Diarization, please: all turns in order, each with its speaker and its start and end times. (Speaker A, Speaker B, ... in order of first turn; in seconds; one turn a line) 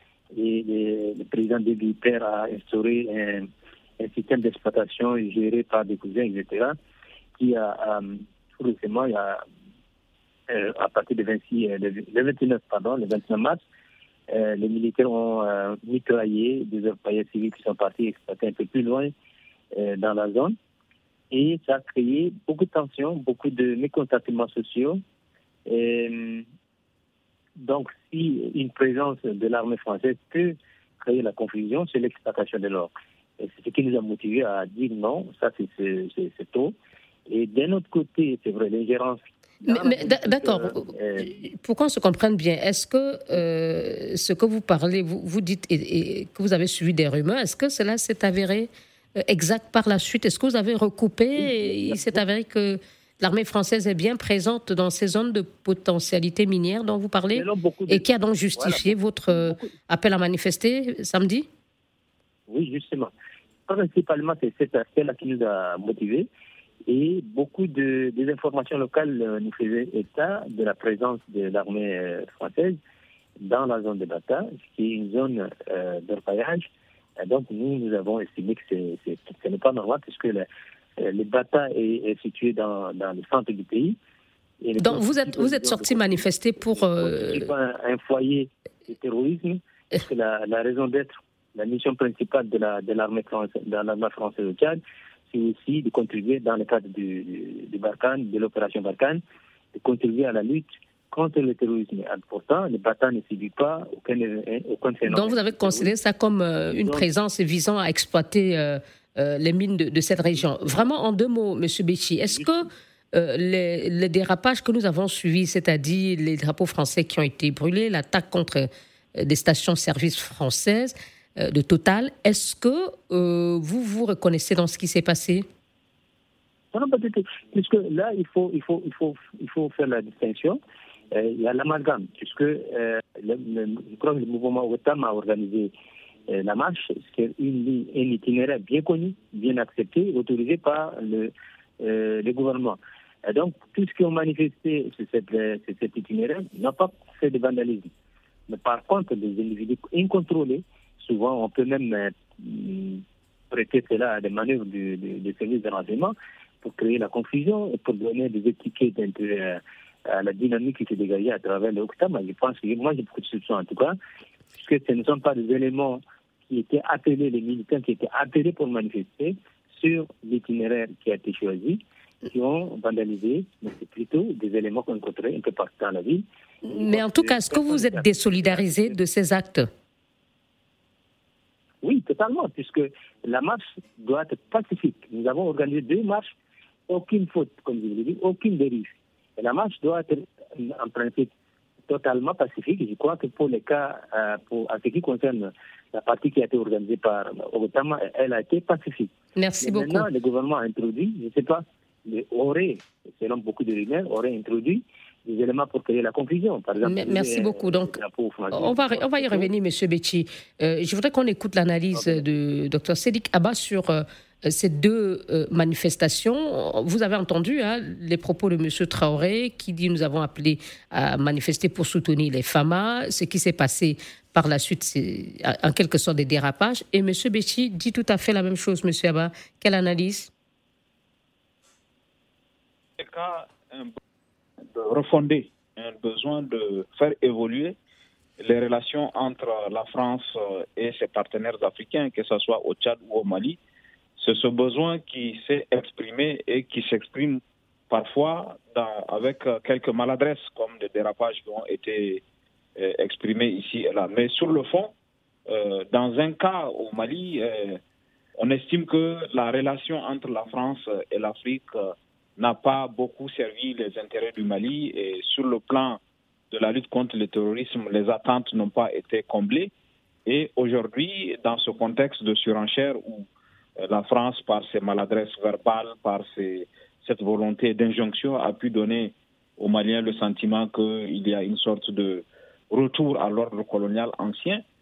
Speaker A: 0.3-6.8
Speaker A: 7.4-9.4
Speaker A: 10.5-13.6
Speaker A: 14.3-19.1
Speaker A: 19.7-20.6
Speaker A: 21.3-25.0
Speaker A: 25.7-26.4
Speaker A: 27.6-36.7
Speaker A: 37.3-41.3
Speaker B: 39.6-61.5
Speaker A: 51.4-52.2
Speaker A: 57.4-58.0
Speaker A: 58.6-59.7
Speaker A: 62.5-63.1
Speaker A: 63.7-66.3
Speaker A: 66.9-72.8
Speaker A: 73.4-76.7
Speaker A: 77.2-80.5
Speaker A: 81.0-84.0
Speaker A: 84.6-86.2
Speaker B: 84.8-87.5
Speaker A: 86.8-94.8
Speaker A: 95.3-99.2
Speaker A: 99.7-105.9
Speaker B: 105.1-125.5
Speaker A: 106.8-107.1
Speaker A: 126.7-130.6
Speaker A: 131.1-135.7
Speaker A: 136.3-147.9
Speaker A: 148.5-164.0
Speaker A: 164.5-179.0
Speaker B: 176.6-179.7
Speaker A: 181.8-186.3
Speaker A: 186.9-191.3
Speaker A: 191.9-209.5
Speaker B: 199.4-200.1
Speaker B: 206.8-208.0
Speaker B: 208.5-230.3
Speaker A: 212.0-212.2
Speaker C: 233.0-233.9
Speaker C: 234.7-237.8
Speaker C: 238.4-243.6
Speaker C: 244.2-252.2
Speaker C: 252.8-254.9
Speaker C: 255.5-257.8
Speaker C: 258.4-266.0
Speaker C: 266.5-269.7
Speaker C: 270.3-284.6